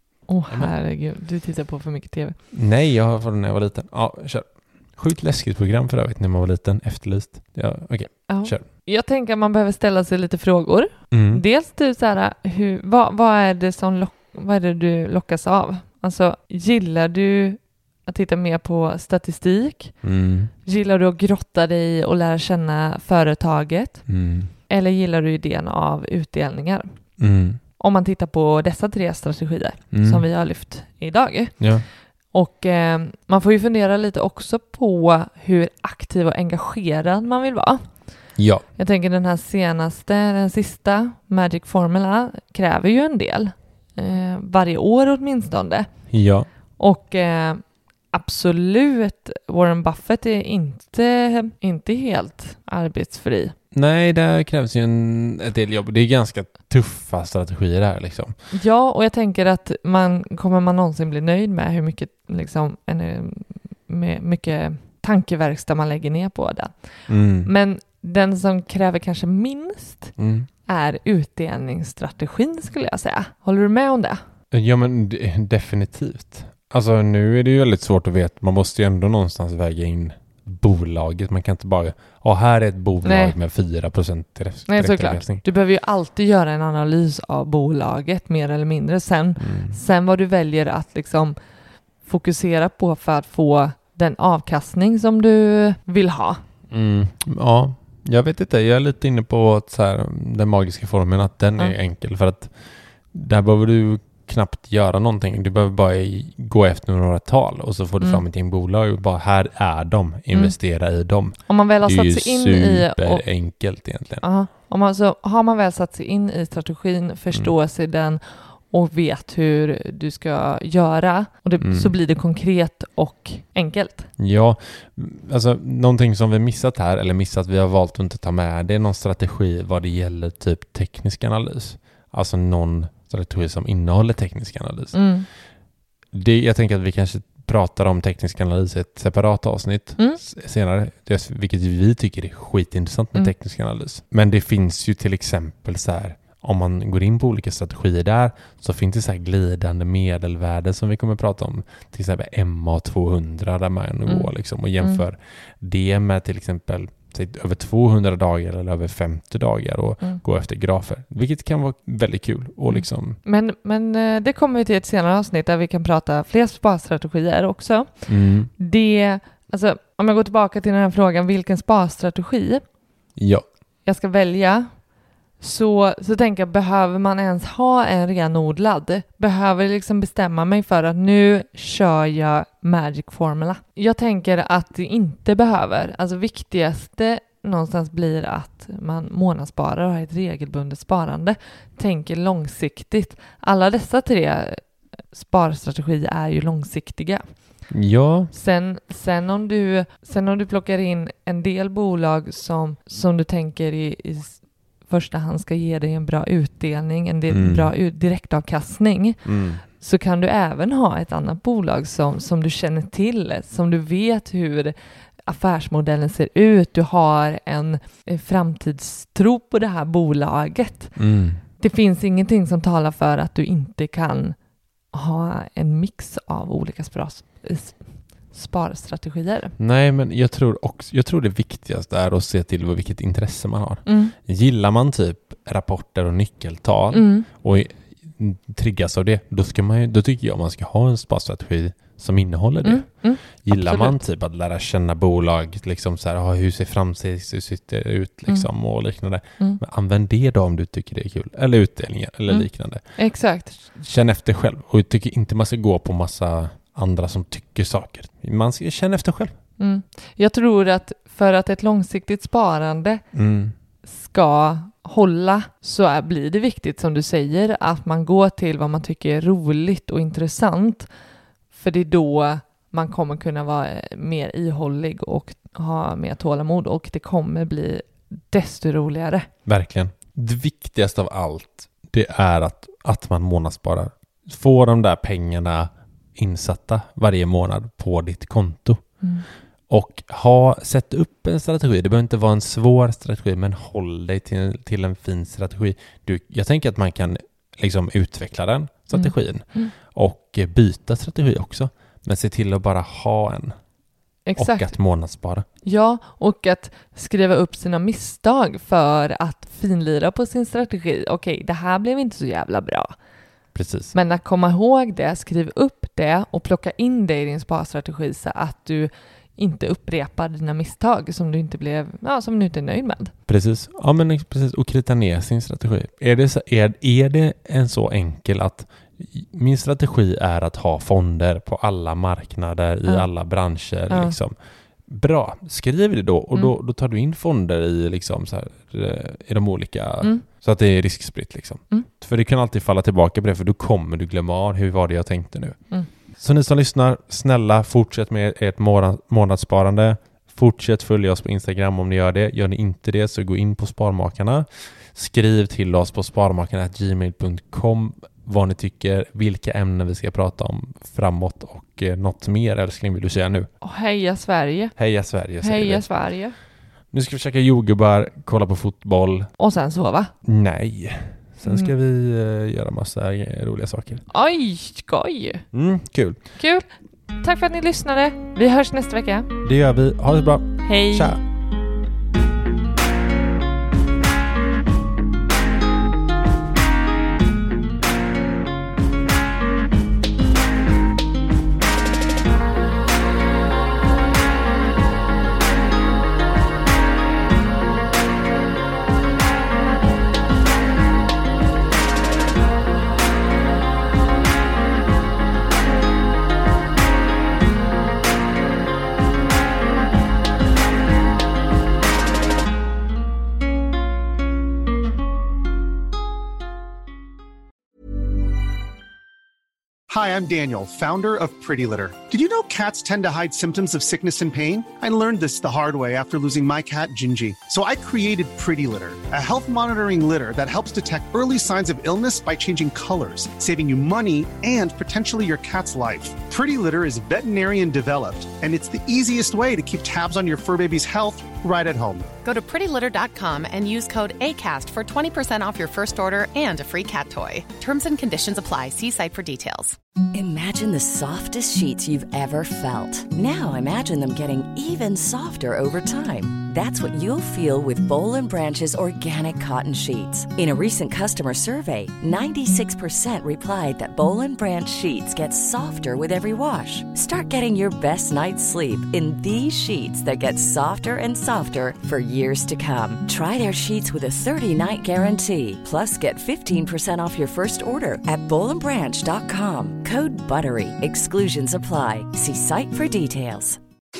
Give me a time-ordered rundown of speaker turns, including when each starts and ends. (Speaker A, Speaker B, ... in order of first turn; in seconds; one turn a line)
Speaker A: 0.3-2.4
Speaker B: 2.5-8.6
Speaker A: 8.3-19.9
Speaker B: 11.1-11.4
Speaker B: 20.0-20.5
Speaker A: 20.6-24.1
Speaker B: 24.1-24.5
Speaker A: 24.7-27.0
Speaker B: 27.2-27.6
Speaker A: 27.8-31.7
Speaker B: 29.9-30.2
Speaker B: 31.6-31.9
Speaker A: 32.3-38.0
Speaker B: 38.4-38.6
Speaker A: 38.8-45.9
Speaker B: 46.1-46.5
Speaker A: 46.8-53.5
Speaker B: 53.7-58.3
Speaker A: 58.5-70.1
Speaker B: 67.1-67.5
Speaker B: 70.2-70.5
Speaker A: 70.7-74.2
Speaker B: 74.5-85.4
Speaker A: 83.0-83.3
Speaker A: 84.7-91.3
Speaker B: 89.4-89.8
Speaker A: 92.0-96.4
Speaker B: 96.7-102.5
Speaker B: 103.1-114.2
Speaker A: 111.5-113.2
Speaker A: 114.2-124.1
Speaker B: 121.6-121.9
Speaker B: 124.2-135.0
Speaker A: 134.9-135.3
Speaker B: 136.1-163.2
Speaker A: 154.1-155.0
Speaker A: 162.7-172.6
Speaker B: 168.1-168.5
Speaker B: 173.2-173.4
Speaker A: 173.8-174.8
Speaker A: 175.4-194.6
Speaker A: 195.1-197.2
Speaker B: 197.7-198.3
Speaker A: 198.3-209.3
Speaker B: 207.3-207.7
Speaker B: 209.2-209.6
Speaker A: 209.8-214.7
Speaker A: 215.2-220.9
Speaker B: 221.0-221.4
Speaker A: 221.6-224.3
Speaker A: 224.9-229.5
Speaker B: 229.6-252.8
Speaker A: 233.8-234.1
Speaker A: 236.9-237.3
Speaker A: 242.6-244.0
Speaker A: 252.3-253.7
Speaker B: 253.8-259.3
Speaker A: 259.6-263.0
Speaker B: 263.1-263.5
Speaker A: 263.9-270.9
Speaker A: 271.5-279.3
Speaker B: 279.4-288.8
Speaker B: 289.7-303.6
Speaker A: 298.9-299.7
Speaker A: 304.2-304.7
Speaker B: 304.4-305.4
Speaker A: 305.6-312.9
Speaker B: 313.5-313.9
Speaker A: 313.9-323.1
Speaker B: 323.3-334.3
Speaker A: 333.9-334.1
Speaker B: 334.9-345.6
Speaker B: 346.2-363.5
Speaker A: 363.6-364.7
Speaker B: 364.8-365.9
Speaker A: 365.4-366.4
Speaker B: 366.9-369.3
Speaker A: 369.4-370.1
Speaker B: 370.2-374.0
Speaker A: 371.4-371.7
Speaker A: 374.1-375.4
Speaker B: 375.5-376.2
Speaker A: 376.4-376.7
Speaker A: 377.2-379.3
Speaker B: 379.4-381.2
Speaker A: 380.6-381.2
Speaker C: 419.9-442.1
Speaker D: 442.2-449.8
Speaker E: 450.1-483.6